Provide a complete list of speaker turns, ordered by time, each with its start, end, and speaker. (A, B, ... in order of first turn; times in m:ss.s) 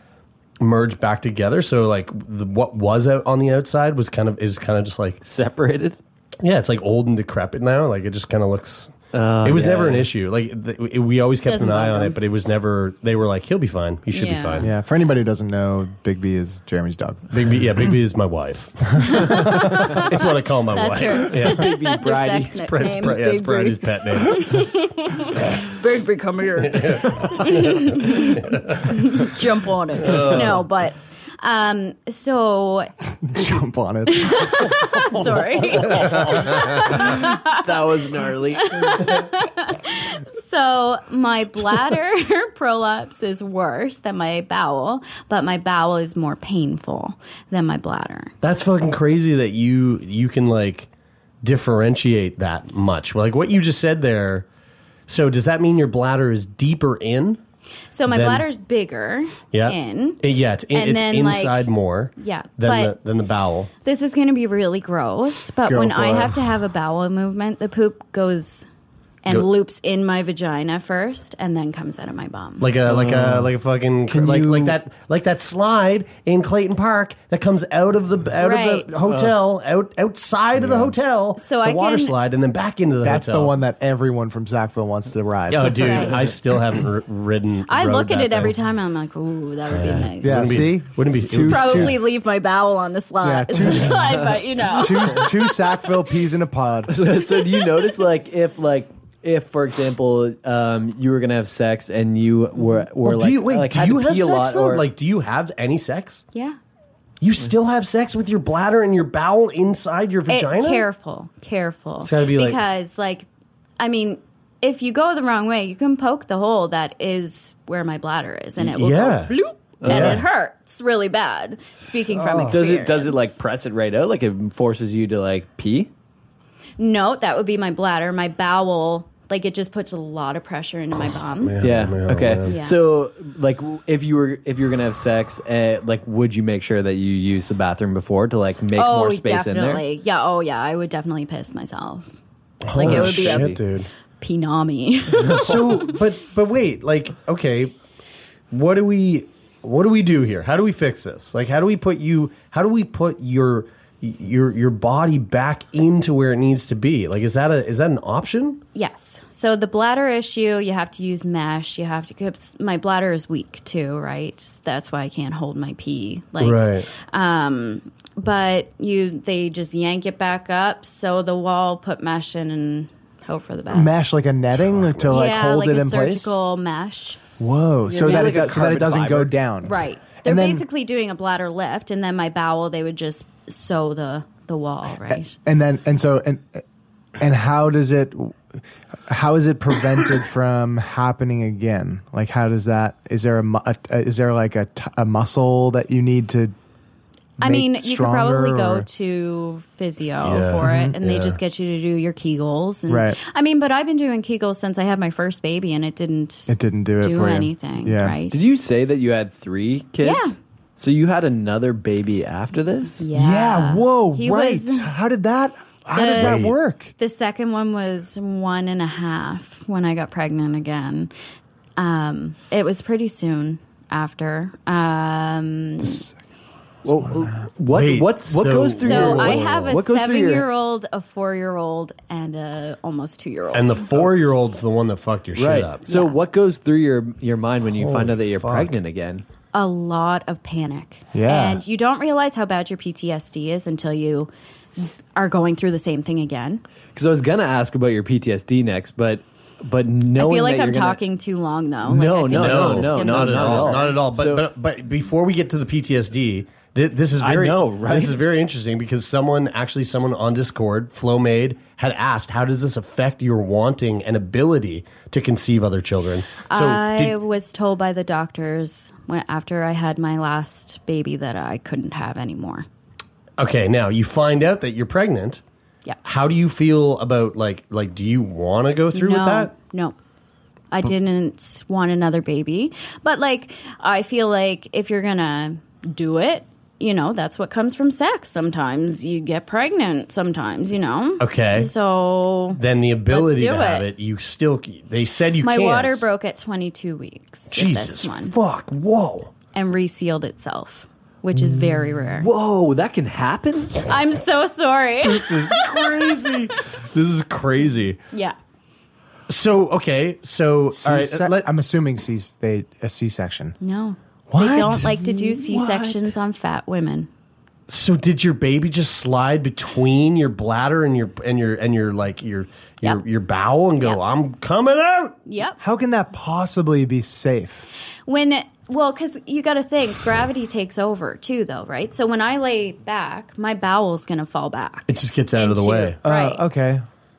0:00.6-0:05.2 A
0:05.2-0:06.0 B
0:06.4-0:14.7 A
0:09.1-0:10.1 B
0:11.5-0:12.2 C
0:14.1-0:14.7 C
0:14.6-0:17.6 D
0:17.3-0:21.7 A
0:19.1-0:20.2 C
0:19.2-0:19.7 D
0:20.7-0:32.9 C
0:21.5-0:22.6 B
0:22.6-0:24.6 A
0:26.6-0:29.0 A
0:30.0-0:30.7 A
0:33.2-0:35.3 D
0:34.1-0:37.6 C
0:36.9-0:39.0 B
0:38.6-0:48.3 C
0:48.4-0:50.9 A
0:51.4-0:54.5 A
0:55.1-0:57.4 A
0:57.9-1:00.2 C
0:58.1-0:58.5 A
0:59.5-1:03.7 A
1:00.7-1:03.0 C
1:03.8-1:08.7 C
1:05.7-1:06.4 D
1:09.2-1:12.7 C
1:12.6-1:23.6 A
1:12.9-1:13.5 B
1:14.1-1:14.8 D
1:18.4-1:18.9 C
1:19.1-1:19.3 B
1:20.6-1:20.9 D
1:21.4-1:22.2 C
1:23.0-1:26.1 D
1:25.5-1:28.6 A
1:25.8-1:26.2 C
1:27.7-1:30.6 C
1:29.7-1:32.0 A
1:30.2-1:32.0 D
1:31.4-1:35.5 C
1:33.2-1:34.2 D
1:34.8-1:37.0 D
1:36.9-1:44.9 B
1:42.6-1:42.8 C
1:43.0-1:46.2 A
1:46.3-1:46.6 C
1:47.2-1:50.8 A
1:50.3-1:53.3 C
1:52.0-1:52.6 A
1:53.8-2:03.3 C
1:58.6-1:59.3 A
1:59.8-2:00.2 B
1:59.8-2:00.2 A
2:02.1-2:02.6 D
2:02.5-2:05.9 B
2:06.8-2:11.6 C
2:11.4-2:12.6 A
2:11.6-2:19.8 B
2:12.4-2:12.8 C
2:18.8-2:22.2 C
2:22.6-2:23.9 A
2:22.7-2:23.6 C
2:22.8-2:23.6 B
2:24.2-2:25.9 C
2:25.2-2:27.7 A
2:25.3-2:25.6 B
2:28.5-2:38.6 A
2:38.8-2:54.0 C
2:46.4-2:46.9 A
2:53.7-2:56.4 D
2:54.5-2:55.1 A
2:55.1-2:57.2 C
2:57.4-3:00.6 D
2:57.9-2:59.4 B
2:59.6-3:05.4 C
3:05.1-3:06.6 D
3:07.2-3:16.5 D
3:17.4-3:18.9 D
3:17.4-3:28.4 C
3:20.2-3:21.4 A
3:20.6-3:20.9 D
3:22.9-3:23.2 D
3:26.5-3:28.2 D
3:28.3-3:33.0 B
3:30.0-3:30.4 C
3:33.0-3:34.9 C
3:33.1-3:36.9 D
3:35.9-3:36.5 C
3:36.1-3:36.6 A
3:37.0-3:41.1 C
3:41.8-3:46.1 C
3:45.8-3:46.2 D
3:46.8-3:50.5 B
3:47.0-3:47.5 D
3:47.7-3:49.8 A
3:48.8-3:54.0 C
3:53.5-3:55.8 A
3:55.4-3:59.2 B
3:55.9-3:56.2 C
3:57.7-3:58.8 A
3:59.5-4:06.6 C
4:01.1-4:01.6 D
4:07.0-4:11.0 B
4:10.2-4:14.0 C
4:11.9-4:14.5 B
4:12.3-4:27.2 A
4:17.2-4:18.2 B
4:26.5-4:32.7 C
4:33.4-4:35.4 A
4:36.0-4:39.5 A
4:38.9-4:40.0 C
4:40.7-4:53.9 C
4:51.2-4:51.7 A
4:52.5-4:56.0 A
4:55.4-4:58.4 C
4:57.5-4:59.3 A
4:59.5-5:02.3 C
5:01.4-5:02.0 D
5:02.2-5:03.9 B
5:03.9-5:06.0 C
5:05.0-5:08.0 A
5:08.1-5:08.4 C
5:09.3-5:11.5 A
5:10.7-5:13.6 D
5:13.6-5:17.1 C
5:14.3-5:16.1 D
5:17.7-5:25.2 A
5:25.3-5:25.6 C
5:25.6-5:27.7 D
5:28.1-5:36.4 C
5:34.9-5:36.0 A
5:36.0-5:36.8 D